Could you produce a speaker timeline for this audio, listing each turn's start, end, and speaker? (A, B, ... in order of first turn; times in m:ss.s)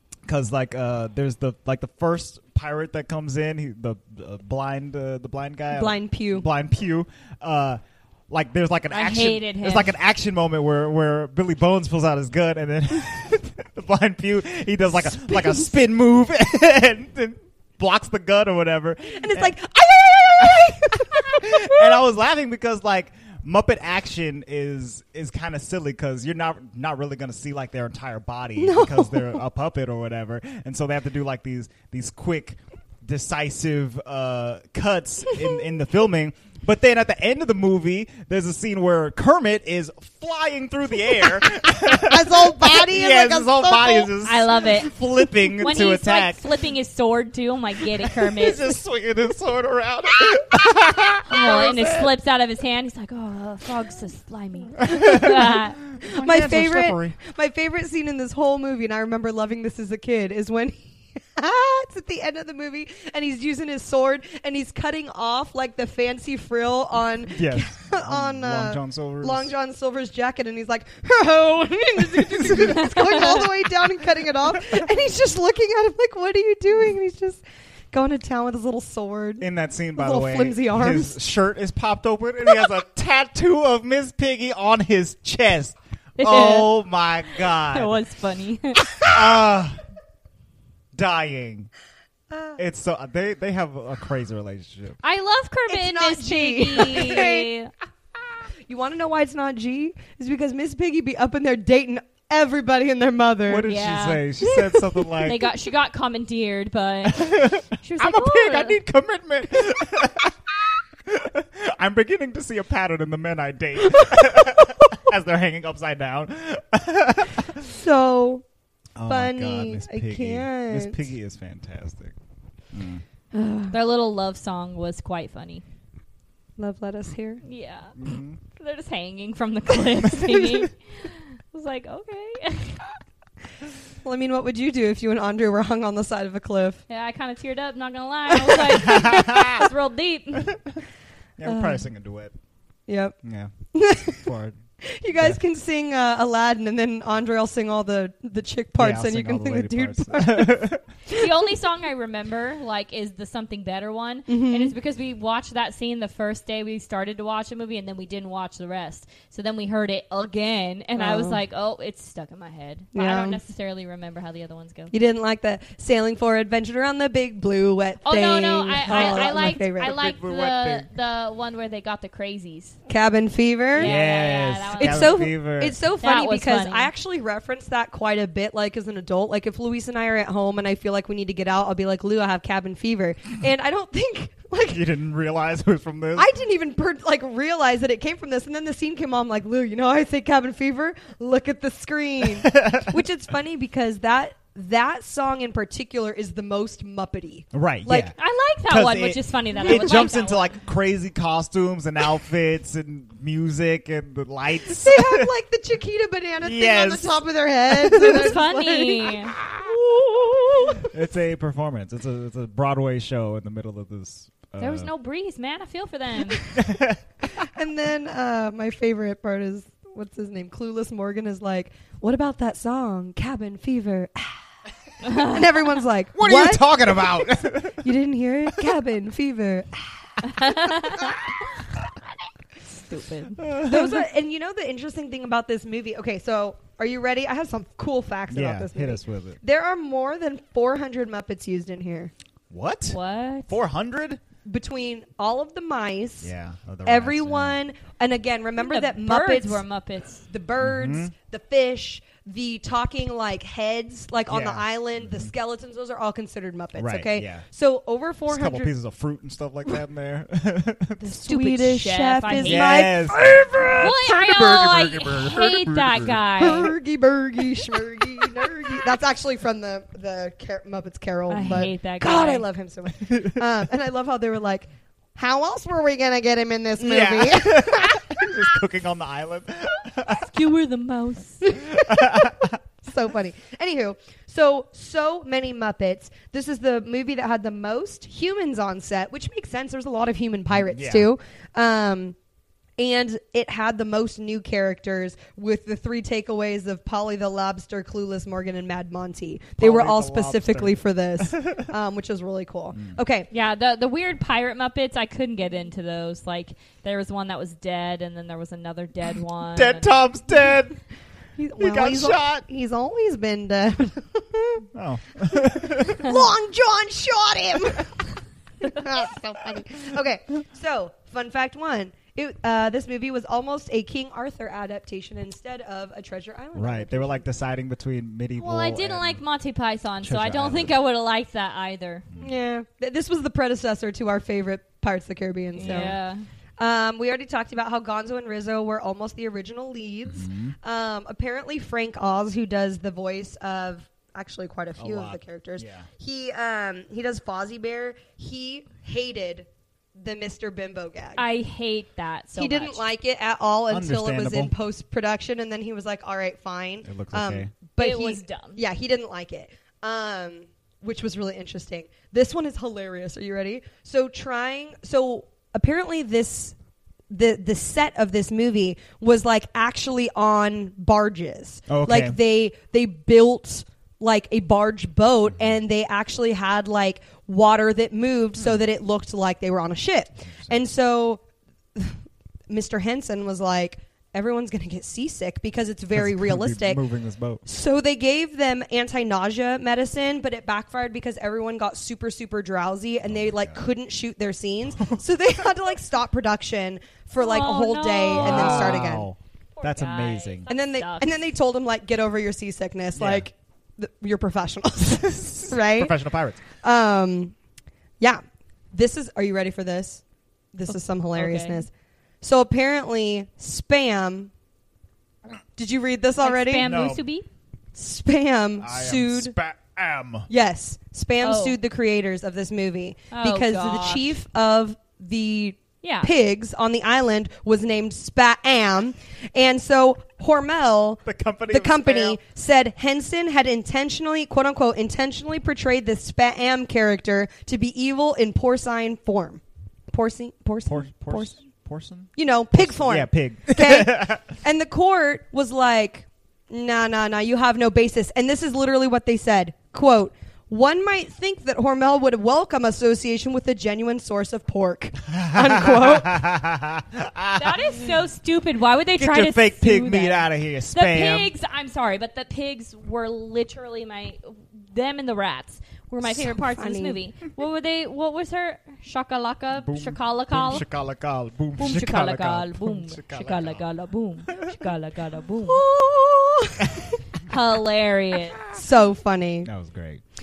0:00.2-0:19.5 A
0:05.7-0:06.5 B
0:08.9-0:09.9 C
0:15.3-0:15.6 B
0:19.1-0:22.0 B
0:20.4-0:46.4 A
0:28.6-0:29.4 B
0:41.8-0:44.1 B
0:44.2-0:45.0 C
0:45.6-0:48.7 C
0:48.2-0:52.0 A
0:51.3-0:55.8 C
0:54.8-0:57.2 A
0:56.0-1:21.1 B
1:07.3-1:09.5 A
1:12.0-1:13.3 A
1:19.4-1:28.0 A
1:26.2-1:26.7 C
1:27.6-1:28.8 C
1:29.0-1:29.8 A
1:30.9-1:31.7 A
1:32.3-1:32.6 B
1:32.6-1:35.0 A
1:35.0-1:37.7 C
1:35.7-1:37.5 B
1:38.7-1:43.7 B
1:43.5-1:45.5 A
1:43.6-1:44.3 C
1:44.5-1:45.2 B
1:45.2-1:47.3 C
1:47.0-1:50.4 A
1:47.8-1:48.8 C
1:51.0-1:57.7 A
1:57.6-1:58.4 B
1:59.0-2:02.1 A
1:59.1-2:01.0 B
2:02.7-2:03.0 A
2:03.3-2:03.8 B
2:03.7-2:05.6 C
2:06.6-2:07.4 B
2:07.4-2:08.0 C
2:08.0-2:08.4 A
2:08.6-2:12.8 C
2:14.0-2:16.8 B
2:16.9-2:20.5 C
2:18.7-2:19.7 A
2:20.4-2:20.8 A
2:21.4-2:22.3 A
2:21.4-2:21.8 B
2:22.9-2:23.2 B
2:23.2-2:23.5 A
2:23.7-2:24.3 B
2:24.1-2:24.6 A
2:24.8-2:31.2 B
2:25.1-2:25.4 A
2:28.8-2:30.8 A
2:31.1-2:44.9 C
2:34.3-2:34.7 B
2:41.0-2:41.4 B
2:42.9-2:43.4 B
2:44.9-2:49.9 B
2:48.0-2:52.8 C
2:48.9-2:50.9 A
2:52.9-2:53.9 B
2:53.7-2:55.2 C
2:53.8-2:55.8 A
2:54.8-3:04.8 B
2:56.0-2:56.9 C
3:04.7-3:06.3 A
3:06.2-3:18.1 B
3:12.4-3:12.9 A
3:17.5-3:18.1 A
3:18.1-3:20.5 C
3:18.7-3:25.3 A
3:19.6-3:19.9 B
3:24.8-3:30.9 B
3:26.4-3:28.3 A
3:28.0-3:29.3 C
3:30.9-3:34.9 A
3:34.6-3:36.4 C
3:36.5-3:37.0 A
3:37.4-3:44.4 B
3:45.0-3:47.2 B
3:45.0-3:45.4 C
3:46.1-3:47.9 A
3:47.8-3:51.1 B
3:50.2-3:51.1 C
3:52.7-3:53.4 C
3:53.4-3:54.0 A
3:53.5-4:02.1 B
3:58.3-3:59.4 A
4:02.5-4:04.2 A
4:02.9-4:03.6 C
4:04.4-4:06.3 B
4:06.2-4:07.6 A
4:06.8-4:09.6 B
4:08.6-4:10.3 C
4:10.3-4:18.7 B
4:10.6-4:11.1 A
4:14.3-4:15.3 A
4:16.8-4:17.4 A
4:18.3-4:21.1 A
4:21.0-4:24.6 B
4:21.0-4:22.8 C
4:22.3-4:26.2 A
4:23.8-4:26.7 C
4:26.4-4:38.3 B
4:31.3-4:32.4 C
4:33.1-4:33.4 A
4:36.8-4:40.3 A
4:40.1-4:41.5 C
4:41.6-4:42.2 B
4:41.7-4:42.6 A
4:42.8-4:52.1 B
4:50.5-4:51.1 A
4:52.8-5:03.3 B
4:59.6-5:01.6 A
5:03.3-5:09.9 C
5:09.5-5:10.8 A
5:11.4-5:14.6 B
5:11.6-5:12.4 A
5:14.7-5:16.2 A
5:15.5-5:18.0 B
5:18.6-5:27.2 B
5:26.5-5:29.2 A
5:28.4-5:32.0 C
5:30.0-5:30.8 A
5:32.2-5:36.0 B
5:35.5-5:36.2 C
5:35.6-5:35.9 A
5:36.6-5:51.2 B
5:40.0-5:40.5 A
5:44.8-5:45.9 A
5:51.2-5:52.8 C
5:52.3-6:06.5 B
5:53.7-5:54.5 A
5:56.8-5:57.5 A
5:57.8-5:58.6 C
6:07.1-6:21.2 B
6:11.7-6:12.2 A
6:15.3-6:15.6 A
6:21.7-6:26.8 B
6:25.9-6:27.4 A
6:27.4-6:39.1 B
6:33.0-6:33.6 A
6:37.2-6:39.0 C
6:38.1-6:40.5 A
6:39.6-6:41.2 C
6:40.5-6:45.9 B
6:42.9-6:43.3 A
6:45.0-6:46.4 A
6:46.6-6:47.3 B
6:48.0-6:51.7 B
6:50.7-6:51.6 C
6:52.2-6:54.3 B
6:55.6-6:56.7 B
6:56.2-6:57.3 C
6:56.6-6:57.0 A
6:57.7-6:59.3 B
6:58.6-7:00.3 A
7:00.3-7:21.4 B
7:01.2-7:01.6 C
7:03.1-7:04.1 C
7:05.8-7:06.1 C
7:11.0-7:12.2 A
7:20.6-7:24.2 A
7:22.2-7:36.2 B
7:35.1-7:37.9 A
7:37.3-7:50.6 C
7:38.9-7:41.3 A
7:46.0-7:47.0 B
7:49.5-7:53.6 A
7:51.6-7:55.6 C
7:55.4-7:57.0 B
7:57.3-7:58.4 C
7:58.4-7:59.5 B
7:59.4-8:00.0 A